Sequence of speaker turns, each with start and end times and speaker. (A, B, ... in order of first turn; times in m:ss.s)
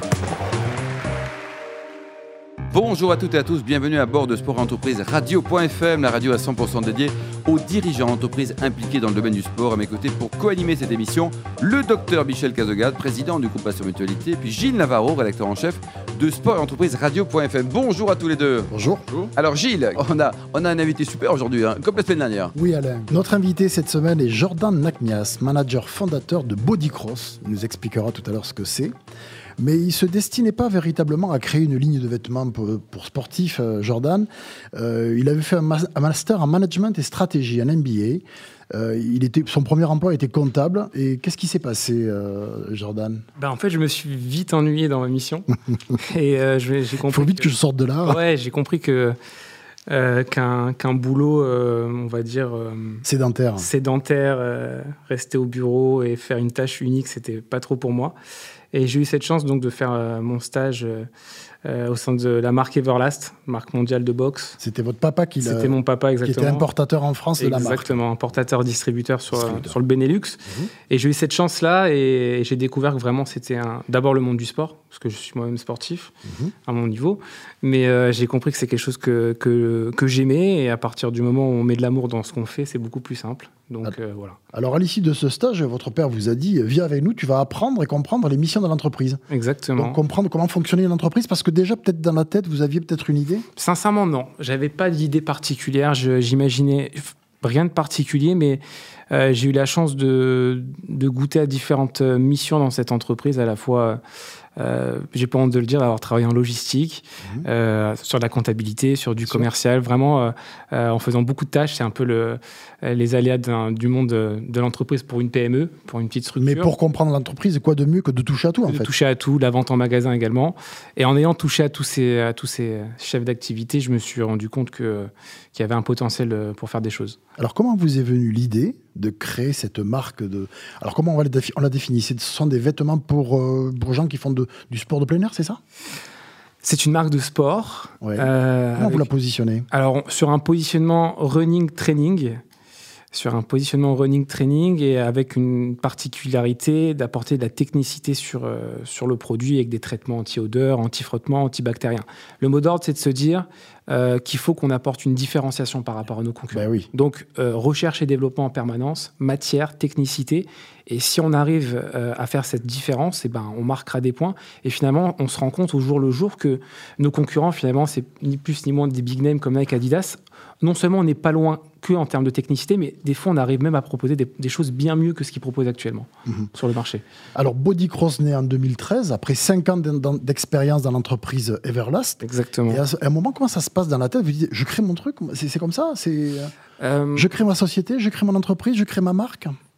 0:02.7-0:18.7 A
0:18.7-0:19.1 B
0:19.3-0:22.5 A
0:22.5-0:28.9 B
0:29.6-0:43.2 B
0:43.4-0:47.5 C
0:47.0-0:48.2 B
0:48.0-0:49.2 C
0:49.9-0:53.0 C
0:53.0-0:53.7 B
0:53.6-0:58.1 C
0:58.7-1:01.1 C
1:01.6-1:04.6 C
1:04.6-1:08.0 B
1:05.4-1:06.6 C
1:07.4-1:16.1 C
1:09.3-1:09.8 B
1:16.2-1:16.5 B
1:16.6-1:24.4 C
1:24.5-1:29.2 B
1:29.3-1:30.0 C
1:29.8-1:33.4 B
1:33.6-1:44.0 C
1:44.6-1:56.7 C
1:56.4-1:58.9 B
1:58.7-2:07.2 C
2:07.4-2:15.6 B
2:16.6-2:19.1 C
2:18.0-2:19.6 B
2:19.7-2:22.4 C
2:23.1-2:57.0 C
2:36.5-2:36.9 B
2:57.3-3:06.5 B
3:02.2-3:02.8 C
3:06.8-3:07.3 C
3:07.1-3:09.5 B